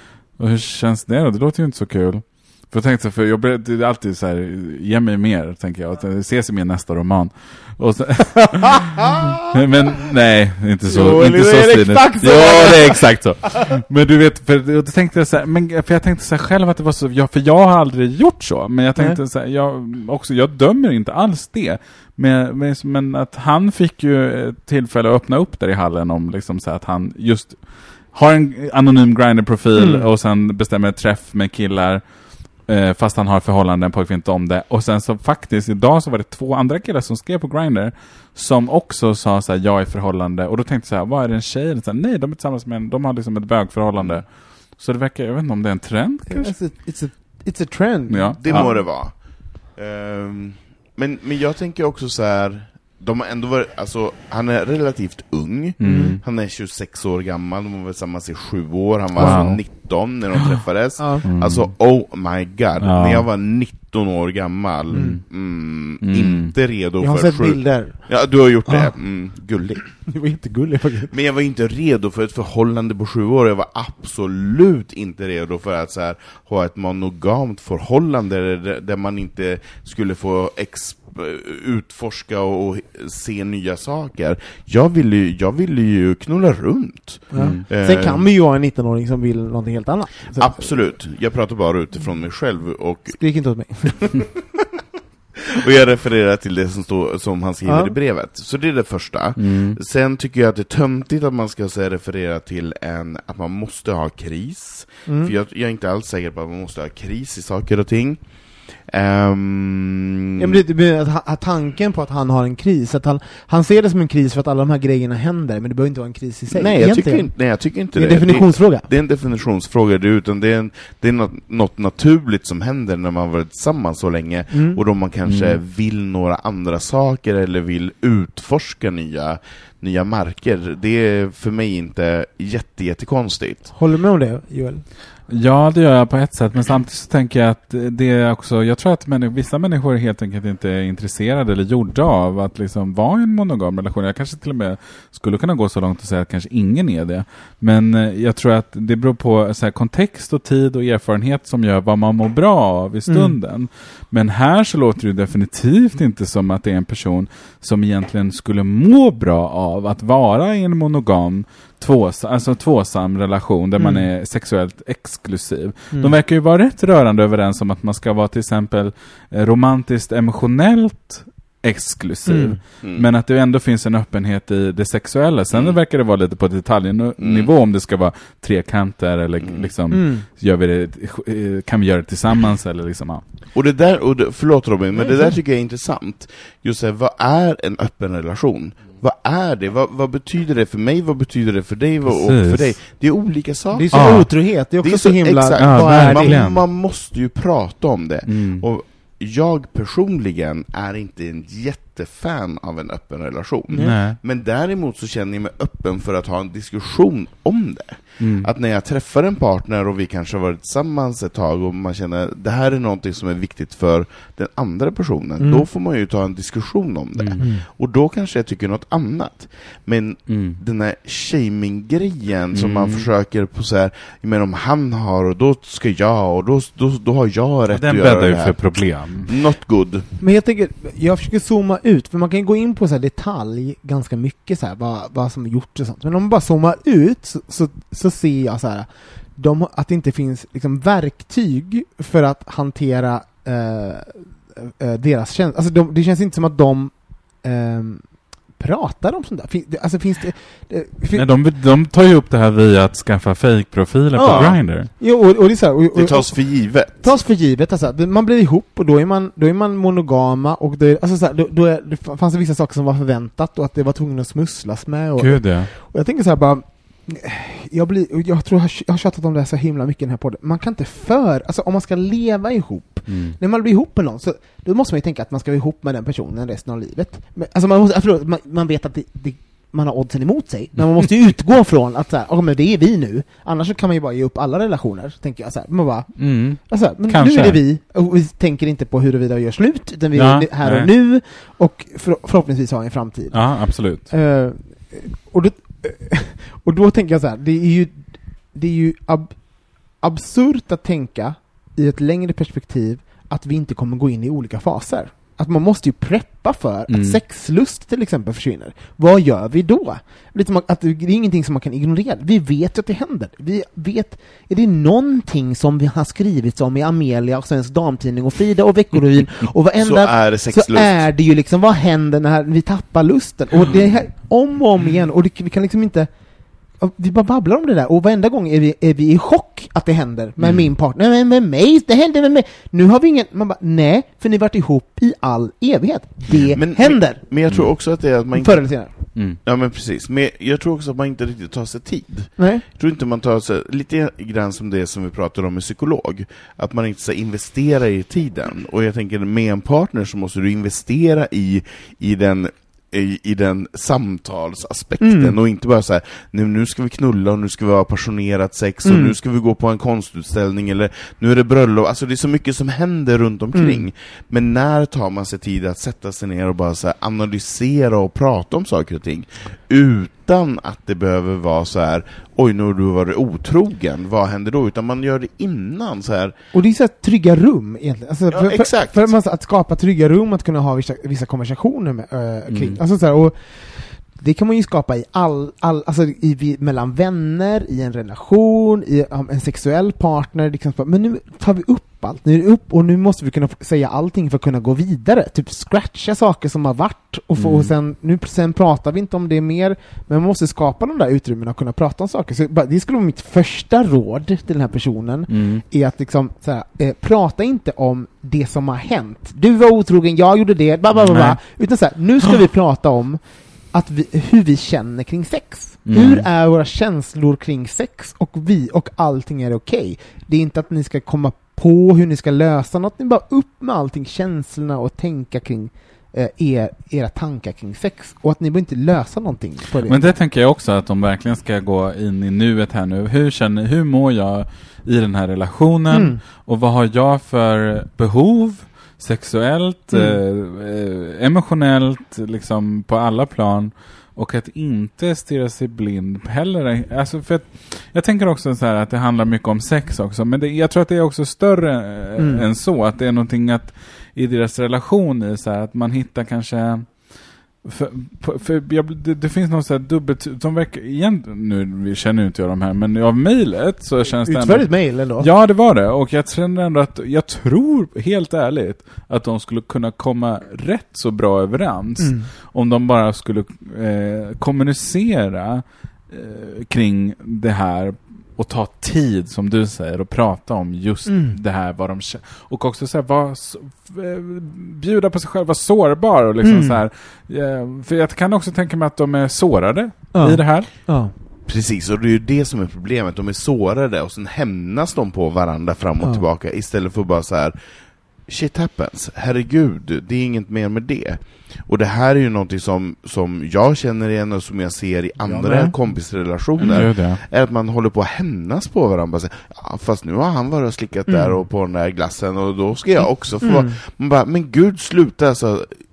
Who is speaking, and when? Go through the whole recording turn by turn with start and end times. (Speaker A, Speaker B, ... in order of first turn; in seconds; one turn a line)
Speaker A: 0.4-27.6
Speaker B: 10.9-13.0
Speaker A: 28.1-32.0
Speaker B: 29.7-30.0
Speaker A: 32.7-46.5
Speaker C: 44.0-44.2
Speaker B: 46.3-48.8
Speaker A: 48.1-48.7
Speaker C: 48.4-49.2
Speaker C: 49.7-69.8
Speaker A: 55.8-56.2
Speaker B: 55.8-56.2
Speaker A: 59.2-59.6
Speaker B: 59.2-59.5
Speaker B: 61.0-61.2
Speaker A: 61.2-61.7
Speaker A: 62.8-63.2
Speaker B: 64.9-65.2
Speaker A: 64.9-65.2
Speaker A: 66.0-66.5
Speaker B: 67.0-68.0
Speaker B: 70.1-71.1
Speaker C: 71.1-88.3
Speaker B: 87.3-90.7
Speaker A: 87.4-87.6
Speaker C: 90.3-93.2
Speaker B: 93.2-94.1
Speaker C: 93.9-94.6
Speaker C: 95.5-108.2
Speaker B: 97.7-97.9
Speaker A: 99.4-99.8
Speaker B: 105.1-105.3
Speaker C: 108.9-110.6
Speaker B: 110.4-117.3
Speaker C: 116.5-133.7
Speaker B: 117.9-118.9
Speaker B: 124.5-124.8
Speaker A: 125.2-125.6
Speaker B: 133.7-134.8
Speaker A: 135.3-183.2
Speaker B: 153.1-153.3
Speaker B: 163.8-164.0
Speaker B: 172.3-172.6
Speaker C: 172.8-173.1
Speaker C: 177.2-177.5
Speaker C: 179.4-179.7
Speaker B: 179.9-180.2
Speaker C: 183.5-228.7
Speaker A: 192.1-192.8
Speaker B: 193.7-196.4
Speaker A: 193.9-194.3
Speaker A: 195.6-196.6
Speaker A: 198.3-198.6
Speaker A: 203.8-204.2
Speaker A: 208.2-208.5
Speaker B: 215.4-215.7
Speaker B: 217.4-217.7
Speaker A: 220.3-220.6
Speaker A: 222.5-223.1
Speaker A: 227.7-229.3
Speaker C: 229.2-230.1
Speaker B: 230.2-248.0
Speaker B: 248.6-251.2
Speaker A: 251.1-254.9
Speaker B: 254.2-299.4
Speaker C: 254.2-254.5
Speaker C: 255.9-257.1
Speaker A: 265.2-265.7
Speaker A: 273.1-273.4
Speaker A: 286.2-287.6
Speaker A: 290.1-290.9
Speaker A: 293.3-294.1
Speaker B: 300.0-326.1
Speaker A: 306.9-307.2
Speaker C: 319.8-321.0
Speaker B: 326.8-337.2
Speaker A: 330.4-330.6
Speaker C: 336.5-376.3
Speaker B: 338.4-338.9
Speaker B: 342.4-342.6
Speaker B: 355.0-355.4
Speaker B: 358.8-359.1
Speaker B: 363.5-363.9
Speaker B: 376.5-413.2
Speaker C: 378.3-379.1
Speaker A: 382.5-382.8
Speaker A: 397.4-397.7
Speaker A: 405.3-405.6
Speaker A: 410.9-411.4
Speaker B: 413.7-430.0
Speaker A: 415.9-416.2
Speaker A: 429.8-457.1
Speaker B: 435.9-436.2
Speaker B: 439.9-440.2
Speaker B: 452.2-452.4
Speaker A: 457.6-490.9
Speaker B: 464.2-465.3
Speaker B: 472.0-472.3
Speaker B: 481.1-481.4
Speaker B: 486.4-486.8
Speaker B: 490.1-491.1
Speaker C: 491.5-497.6
Speaker C: 498.3-515.8
Speaker B: 505.3-505.7
Speaker A: 506.6-507.2
Speaker B: 511.1-511.3
Speaker B: 513.4-513.7